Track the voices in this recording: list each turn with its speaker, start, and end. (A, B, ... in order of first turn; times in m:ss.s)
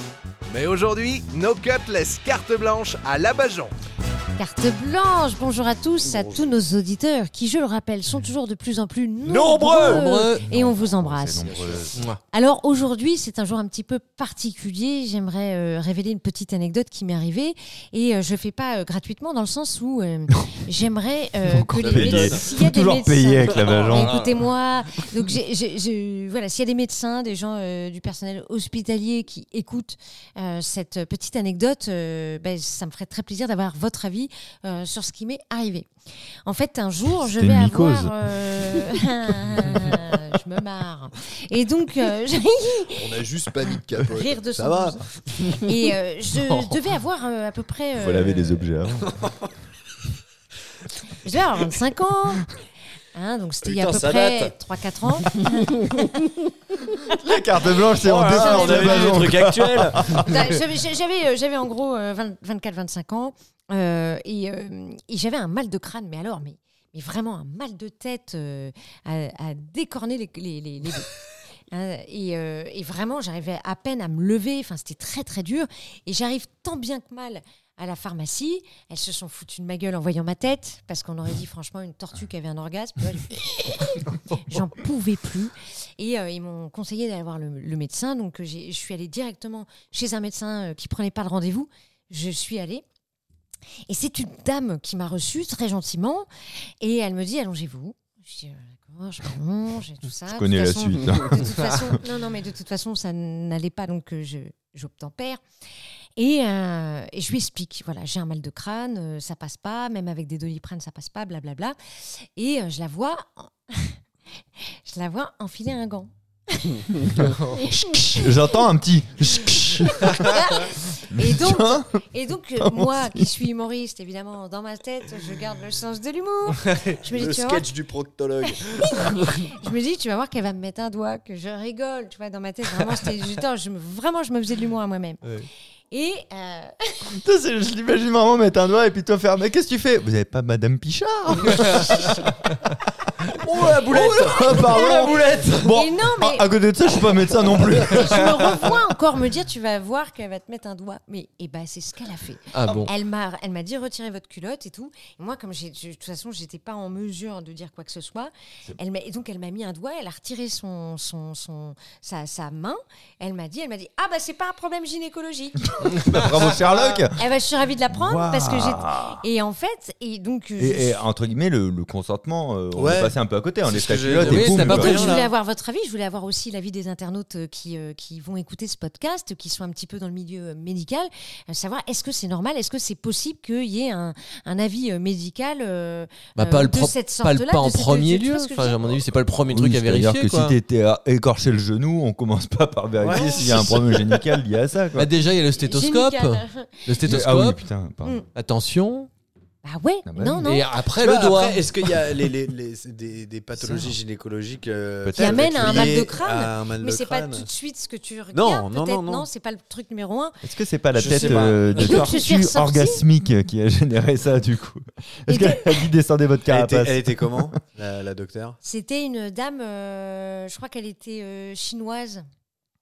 0:00.5-0:03.7 A
0:04.4-0:35.9 B
0:06.0-0:06.6 C
0:09.2-0:10.0 C
0:09.8-0:10.4 D
0:10.4-0:12.1 E
0:11.4-0:11.9 C
0:21.4-0:24.2 E
0:21.8-0:22.5 C
0:23.5-0:24.4 C
0:36.4-0:43.2 B
0:37.2-0:38.8 E
0:43.0-0:45.8 C
0:44.0-0:48.7 B
0:47.9-0:49.2 E
0:51.2-0:52.5 B
0:53.1-0:56.4 B
0:53.6-0:54.5 C
0:55.3-0:55.8 C
0:56.9-0:59.3 B
0:57.1-1:00.5 E
0:58.0-1:00.4 C
1:00.1-1:11.1 B
1:11.7-1:32.8 B
1:33.9-1:36.3 B
1:36.8-1:45.4 B
1:40.3-1:42.0 E
1:46.2-1:54.0 B
1:54.8-1:56.9 B
1:57.2-2:00.5 E
1:57.5-1:58.2 B
2:00.0-2:07.6 B
2:01.1-2:02.0 E
2:02.6-2:03.3 E
2:06.9-2:09.5 C
2:08.8-2:17.1 B
2:17.1-2:22.2 E
2:23.3-2:25.7 C
2:23.9-2:28.7 E
2:23.9-2:26.5 B
2:27.8-2:46.1 B
2:32.5-2:32.9 D
2:45.8-2:47.2 E
2:46.6-2:47.0 C
2:47.1-2:51.0 B
2:47.9-2:49.2 E
2:50.6-2:55.0 E
2:52.7-2:55.3 C
2:54.3-2:54.8 D
2:54.6-3:09.0 B
3:06.4-3:10.5 D
3:09.5-3:15.1 E
3:13.0-3:14.3 C
3:15.0-3:17.6 D
3:15.5-3:17.0 B
3:17.0-3:18.2 E
3:18.4-3:19.1 D
3:19.6-3:20.7 B
3:20.0-3:20.5 E
3:20.5-3:21.6 D
3:21.0-3:27.5 C
3:23.6-3:24.0 E
3:25.0-3:26.0 E
3:25.2-3:30.4 B
3:28.3-3:29.3 C
3:30.4-3:37.5 E
3:30.9-3:32.2 C
3:31.2-3:33.0 B
3:35.3-3:35.8 B
3:36.5-3:38.6 C
3:38.6-3:42.2 B